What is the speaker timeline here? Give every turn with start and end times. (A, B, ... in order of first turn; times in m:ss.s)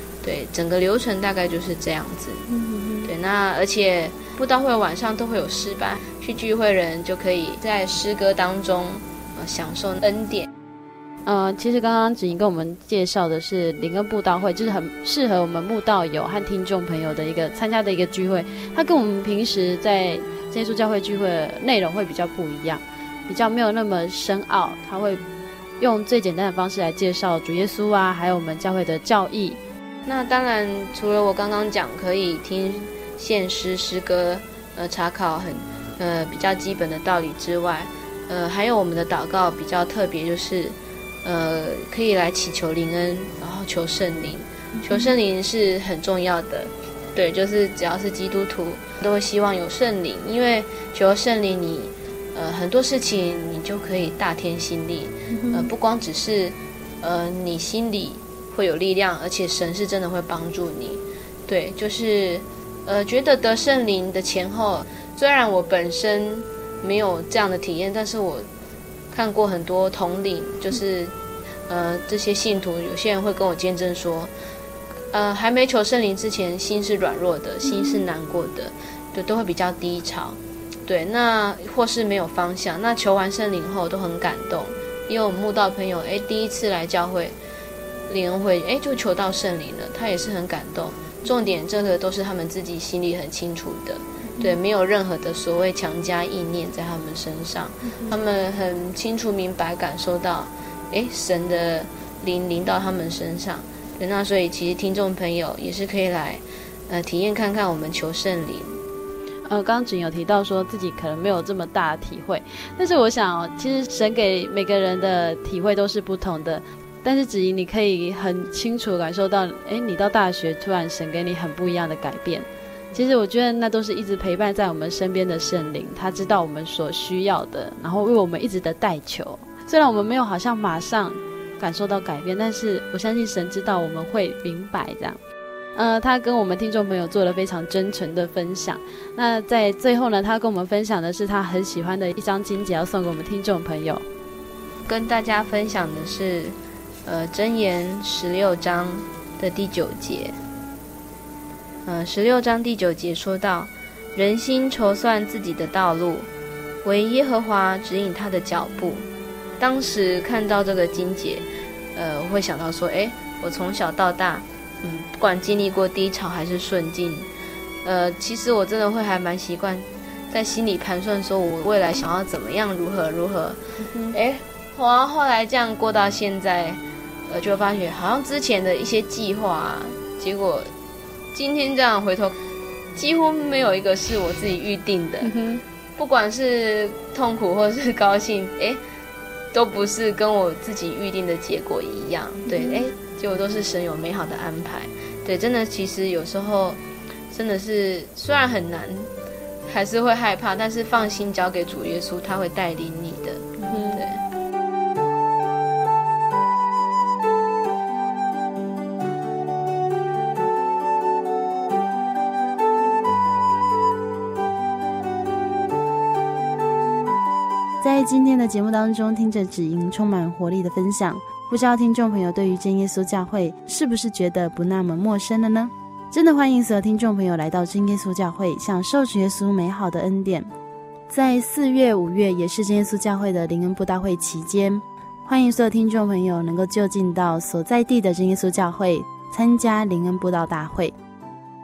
0:00.2-0:02.4 A
0:02.5-0:03.1 B
0:03.0-0:10.5 A
0:11.2-0:25.2 B
0:25.8-0:29.6 B
0:30.1-1:08.5 A
0:44.8-0:45.1 B
0:55.3-0:55.7 B
1:09.1-1:11.1 A
1:11.7-1:14.3 A
1:15.1-1:27.4 A
1:17.7-1:18.0 B
1:28.1-1:48.8 A
1:49.4-2:15.2 B
2:15.8-2:24.0 B
2:24.9-2:30.4 A
2:31.8-2:36.3 A
2:36.8-2:39.0 A
2:39.6-2:47.3 A
2:47.8-2:53.6 A
2:53.8-2:54.2 B
2:54.1-3:00.7 A
3:01.3-3:02.4 A
3:03.0-3:05.3 A
3:05.2-3:05.6 B
3:06.0-3:08.8 A
3:09.5-3:16.8 A
3:12.5-3:12.9 B
3:17.3-3:19.1 A
3:19.7-3:24.2 A
3:23.6-3:24.0 B
3:37.8-3:50.5 C
3:51.1-4:01.0 C